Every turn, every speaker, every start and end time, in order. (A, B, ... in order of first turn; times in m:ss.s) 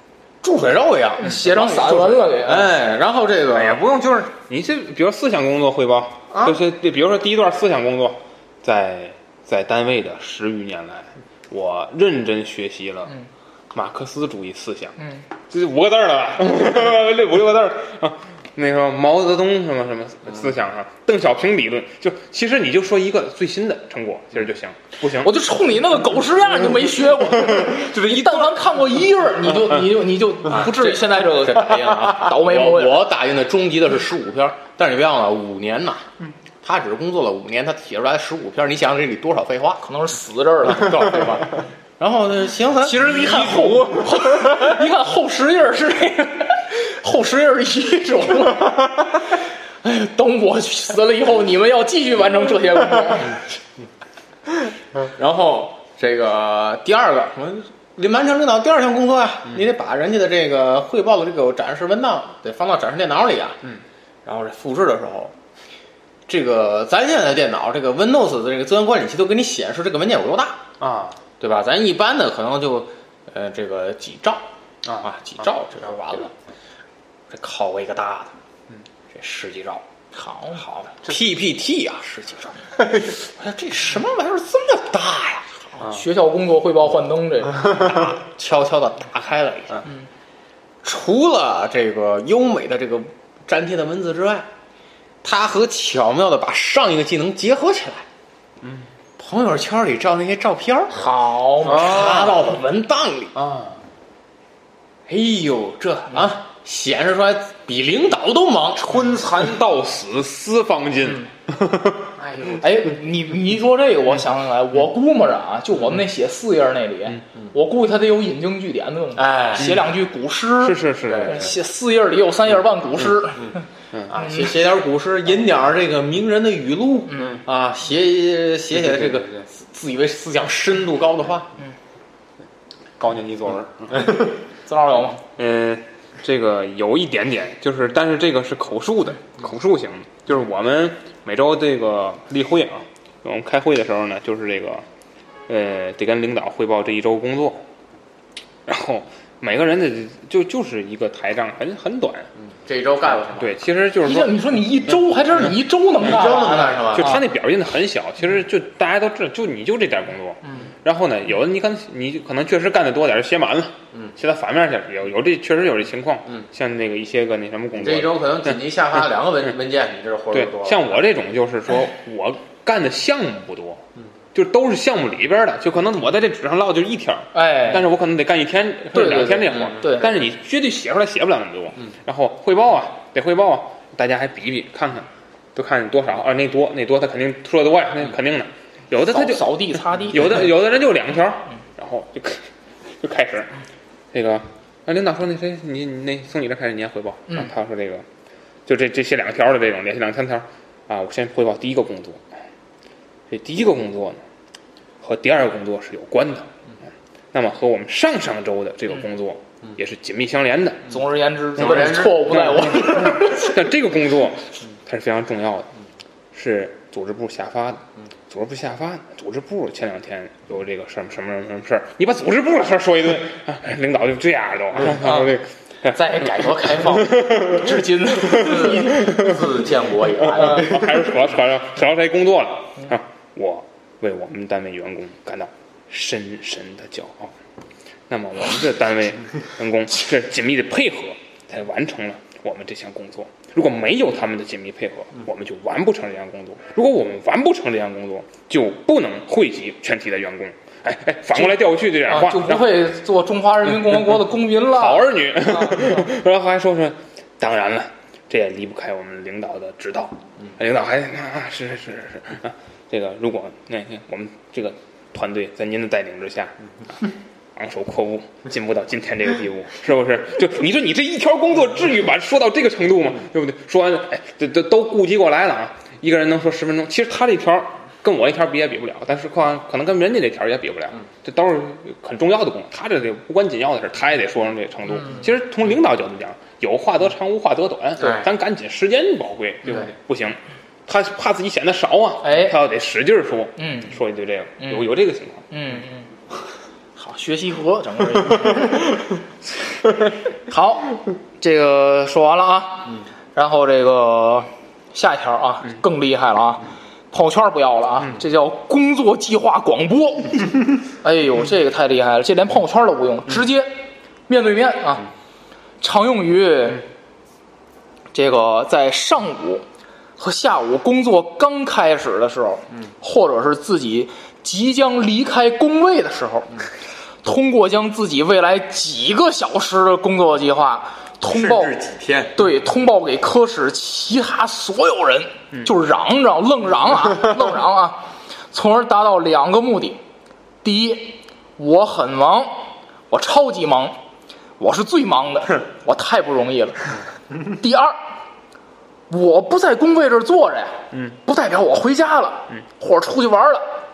0:00.4-0:03.8 A
0:01.2-0:02.7 B
0:03.5-0:13.1 C
0:06.3-0:06.6 A
0:13.7-0:15.0 C
0:15.0-0:15.2 B
0:15.5-0:25.3 C
0:25.1-0:33.1 B
0:27.5-0:28.6 C
0:30.5-0:36.1 A
0:36.6-0:39.8 A
0:39.8-0:41.1 B
0:40.7-0:43.2 A
0:42.8-0:53.4 B
0:43.2-0:44.5 C
0:55.1-1:03.6 A
1:04.2-1:05.3 A
1:06.3-1:10.6 A
1:10.8-1:11.2 C
1:11.4-1:14.5 A
1:15.0-1:16.3 A
1:17.3-1:18.3 A
1:19.1-1:19.8 A
1:20.1-1:20.6 B
1:20.6-1:25.5 A
1:25.8-1:27.8 B
1:27.7-1:29.8 A
1:30.8-1:34.5 A
1:35.2-1:38.1 A
1:39.2-1:41.1 A
1:41.0-1:42.0 B
1:41.6-1:43.4 A
1:41.7-1:42.4 C
1:43.4-1:43.8 C
1:45.1-1:49.0 A
1:48.8-1:52.1 C
1:52.2-1:52.6 A
1:52.6-2:03.6 B
1:59.2-1:59.8 A
2:00.6-2:01.5 C
2:01.1-2:01.5 A
2:04.1-2:11.5 A
2:07.1-2:07.4 B
2:08.8-2:09.4 C
2:13.0-2:14.2 C
2:14.7-2:15.2 B
2:15.3-2:24.8 C
2:25.5-2:27.6 C
2:28.7-2:32.3 C
2:32.5-2:33.6 A
2:33.2-2:34.4 C
2:34.0-2:37.2 B
2:36.0-2:37.2 A
2:36.9-2:48.6 C
2:47.7-2:51.0 A
2:50.3-2:53.8 C
2:54.3-3:13.5 C
2:57.3-2:57.8 B
2:58.9-3:00.1 B
2:59.3-2:59.8 A
3:09.0-3:10.4 B
3:14.1-3:18.0 C
3:18.7-3:22.2 C
3:23.3-3:24.2 C
3:25.0-3:26.5 C
3:27.3-3:30.9 C
3:30.9-3:33.6 B
3:31.6-3:32.7 A
3:31.6-3:35.7 C
3:36.3-3:49.4 C
3:45.0-3:45.3 B
3:46.0-3:49.1 B
3:46.2-3:47.0 A
3:48.3-3:50.9 A
3:50.2-3:57.4 C
3:50.4-3:50.7 B
3:58.1-4:12.8 C
4:11.4-4:16.1 B
4:14.2-4:27.0 C
4:27.6-4:55.4 C
4:48.0-4:48.3 A
4:52.2-4:52.6 B
4:53.6-4:53.9 B
4:54.6-4:54.9 B
4:55.5-4:56.1 B
4:57.0-4:58.9 B
5:00.5-5:13.7 B
5:14.3-5:15.1 B
5:15.8-5:16.8 B
5:18.1-5:19.6 B
5:20.2-5:26.6 B
5:27.2-5:31.8 B
5:31.3-5:32.3 A
5:32.4-5:40.0 B
5:40.6-5:44.0 B
5:44.6-5:46.8 B
5:47.4-5:48.0 B
5:49.1-5:53.6 B